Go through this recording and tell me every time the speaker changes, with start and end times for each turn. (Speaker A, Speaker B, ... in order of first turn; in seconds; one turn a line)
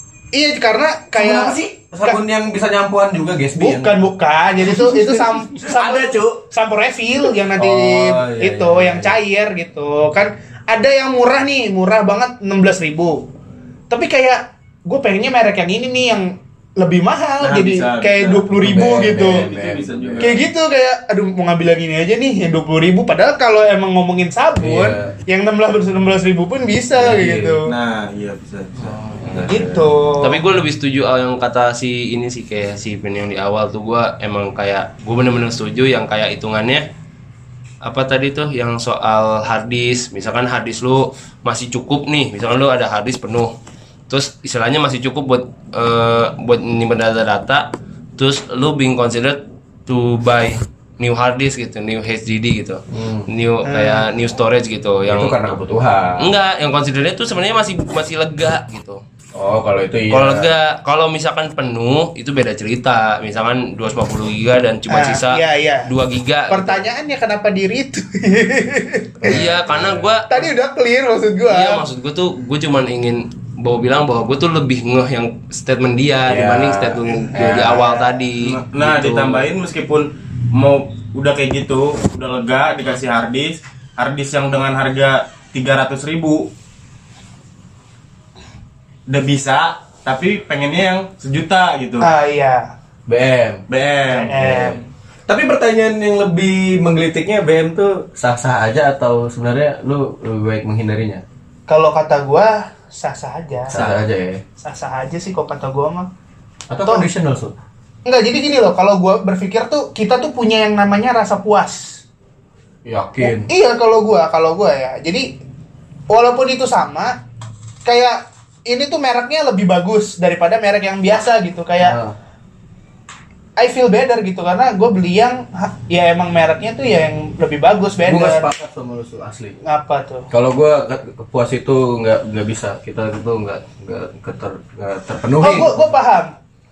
Speaker A: 0.3-2.2
Speaker B: 1.1-4.0
Speaker A: 3.6-13.2
Speaker B: 4.6-6.4
Speaker B: 7.5-9.2
Speaker A: 13.9-19.5
Speaker C: 17.4-20.5
Speaker B: 18.5-20.4
Speaker A: 20.2-27.7
Speaker B: 24.6-25.1
Speaker B: 27.0-27.6
Speaker C: 27.7-29.0
Speaker B: 28.8-29.9
Speaker A: 29.4-30.4
Speaker D: 30.2-36.9
Speaker D: 37.8-43.5
Speaker D: 44.1-55.5
Speaker B: 52.9-53.3
Speaker A: 53.6-54.1
Speaker B: 55.1-56.3
Speaker D: 56.2-59.0
Speaker B: 59.4-60.5
Speaker D: 60.1-66.8
Speaker A: 64.9-65.9
Speaker A: 66.5-69.4
Speaker B: 69.2-70.1
Speaker D: 69.2-70.3
Speaker A: 70.3-71.8
Speaker D: 71.5-79.4
Speaker B: 76.3-77.8
Speaker A: 77.3-78.1
Speaker C: 78.4-86.5
Speaker C: 89.1-92.1
Speaker A: 92.0-92.7
Speaker B: 93.1-93.6
Speaker C: 93.7-94.4
Speaker A: 94.1-94.8
Speaker B: 94.3-101.2
Speaker A: 101.7-103.8
Speaker B: 103.7-104.4
Speaker A: 104.6-106.1
Speaker B: 106.7-107.5
Speaker A: 108.0-112.0
Speaker B: 112.8-113.5
Speaker A: 113.2-115.3
Speaker A: 116.1-117.2
Speaker A: 117.8-122.0
Speaker B: 121.8-122.2
Speaker A: 123.6-128.5
Speaker B: 128.1-129.6
Speaker A: 129.6-130.3
Speaker B: 130.3-135.7
Speaker A: 135.4-136.3